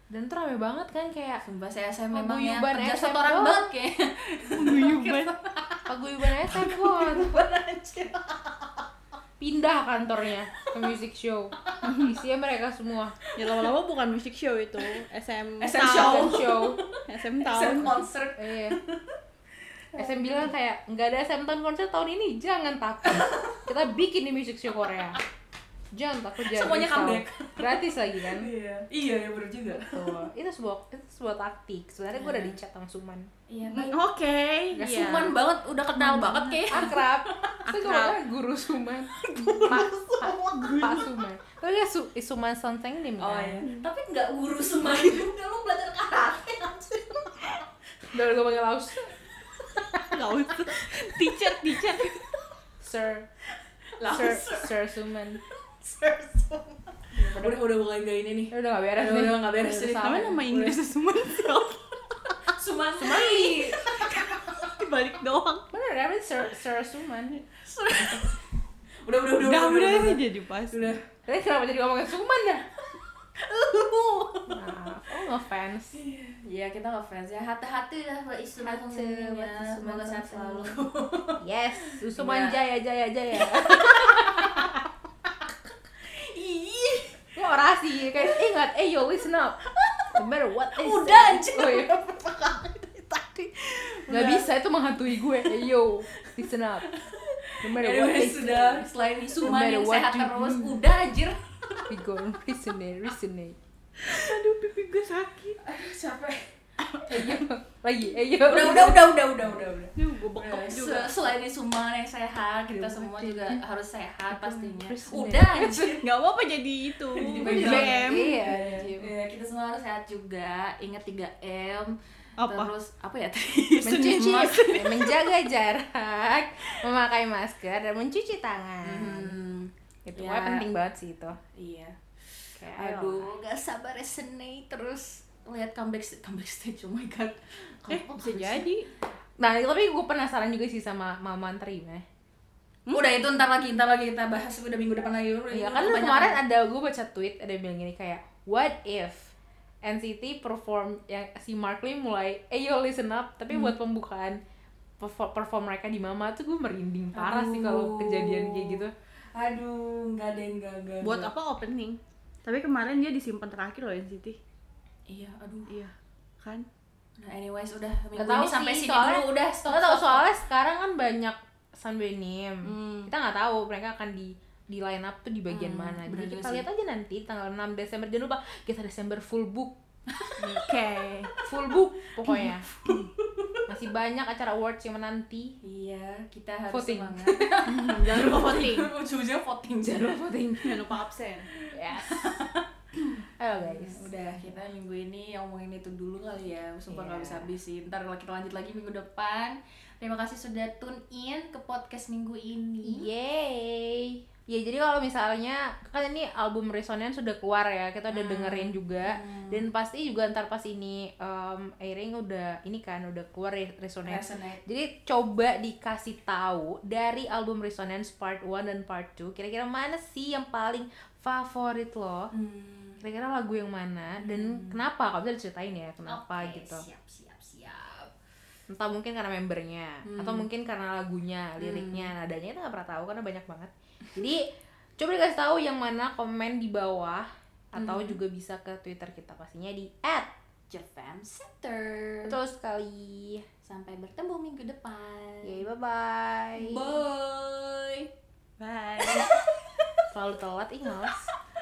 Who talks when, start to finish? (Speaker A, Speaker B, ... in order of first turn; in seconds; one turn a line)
Speaker A: 0.1-1.4
Speaker B: 1.4-8.7
Speaker A: 2.1-3.7
Speaker C: 4.5-5.3
Speaker A: 5.9-7.5
Speaker A: 9.4-13.2
Speaker C: 11.8-12.1
Speaker C: 13.4-16.5
Speaker B: 15.6-19.1
Speaker A: 15.8-16.8
Speaker C: 17.1-18.0
Speaker A: 18.4-18.8
Speaker B: 19.9-20.4
Speaker A: 19.9-25.2
Speaker B: 23.1-23.7
Speaker A: 25.9-28.5
Speaker B: 26.5-30.2
Speaker A: 29.7-33.3
Speaker B: 32.2-32.5
Speaker B: 33.5-34.0
Speaker C: 33.7-35.3
Speaker A: 34.7-35.4
Speaker B: 34.8-37.0
Speaker A: 36.0-43.6
Speaker C: 36.3-36.9
Speaker C: 37.6-38.2
Speaker C: 39.2-41.1
Speaker B: 43.2-47.6
Speaker A: 48.1-49.1
Speaker A: 49.9-50.2
Speaker C: 50.1-52.2
Speaker A: 52.8-53.3
Speaker B: 54.0-54.8
Speaker A: 54.0-55.4
Speaker B: 55.6-60.3
Speaker A: 57.2-57.6
Speaker A: 58.5-60.8
Speaker C: 59.9-62.4
Speaker B: 62.5-64.7
Speaker A: 63.0-63.8
Speaker C: 63.8-65.7
Speaker A: 65.7-67.4
Speaker B: 67.5-68.4
Speaker B: 69.0-71.0
Speaker C: 69.4-70.9
Speaker A: 71.3-72.7
Speaker B: 73.4-74.6
Speaker A: 74.5-76.0
Speaker B: 75.9-82.6
Speaker A: 78.6-80.8
Speaker A: 81.4-84.8
Speaker B: 83.4-84.7
Speaker B: 86.0-87.3
Speaker A: 87.4-89.6
Speaker B: 89.8-90.1
Speaker A: 90.2-93.5
Speaker B: 90.8-92.7
Speaker B: 93.8-94.5
Speaker A: 94.1-96.9
Speaker B: 96.9-101.9
Speaker A: 97.6-98.9
Speaker A: 99.4-100.8
Speaker A: 101.9-103.6
Speaker C: 104.0-105.6
Speaker B: 105.6-107.3
Speaker A: 107.1-109.2
Speaker B: 108.4-116.1
Speaker C: 110.0-111.3
Speaker C: 112.8-113.6
Speaker C: 114.3-118.4
Speaker A: 115.2-115.4
Speaker B: 117.2-124.9
Speaker A: 117.4-119.1
Speaker C: 122.4-122.7
Speaker A: 123.8-129.4
Speaker C: 124.2-125.0
Speaker B: 128.8-130.7
Speaker A: 130.1-131.4
Speaker B: 131.6-138.7
Speaker A: 132.6-133.3
Speaker C: 137.9-138.9
Speaker A: 139.4-142.0
Speaker B: 142.9-146.4
Speaker A: 145.5-154.4
Speaker B: 153.5-153.8
Speaker A: 155.0-158.9
Speaker B: 157.2-158.8
Speaker B: 159.3-161.3
Speaker C: 161.0-164.4
Speaker B: 165.1-165.7
Speaker C: 165.7-166.7
Speaker B: 167.2-170.2
Speaker A: 168.2-179.8
Speaker C: 172.6-173.1
Speaker B: 175.5-176.7
Speaker B: 180.2-181.3
Speaker C: 180.4-181.3
Speaker A: 181.4-182.7
Speaker B: 182.2-183.6
Speaker A: 183.7-185.6
Speaker B: 185.6-190.1
Speaker A: 186.7-187.5
Speaker C: 187.7-188.9
Speaker A: 189.8-190.8
Speaker C: 190.6-191.5
Speaker A: 191.7-192.5
Speaker B: 192.0-203.1
Speaker A: 193.4-194.3
Speaker A: 196.9-197.5
Speaker A: 202.8-222.3
Speaker B: 208.1-209.6
Speaker B: 214.1-214.6
Speaker B: 222.3-223.0
Speaker A: 223.0-226.8
Speaker B: 224.2-224.8
Speaker B: 226.1-228.1
Speaker A: 228.7-234.4
Speaker B: 230.1-230.5
Speaker B: 231.6-232.1
Speaker A: 235.0-240.3
Speaker B: 237.8-238.2
Speaker B: 240.7-242.4
Speaker A: 242.2-243.4
Speaker B: 243.7-245.6
Speaker A: 245.4-247.0
Speaker B: 246.6-248.1
Speaker C: 248.6-249.4
Speaker B: 249.0-249.3
Speaker A: 250.1-251.3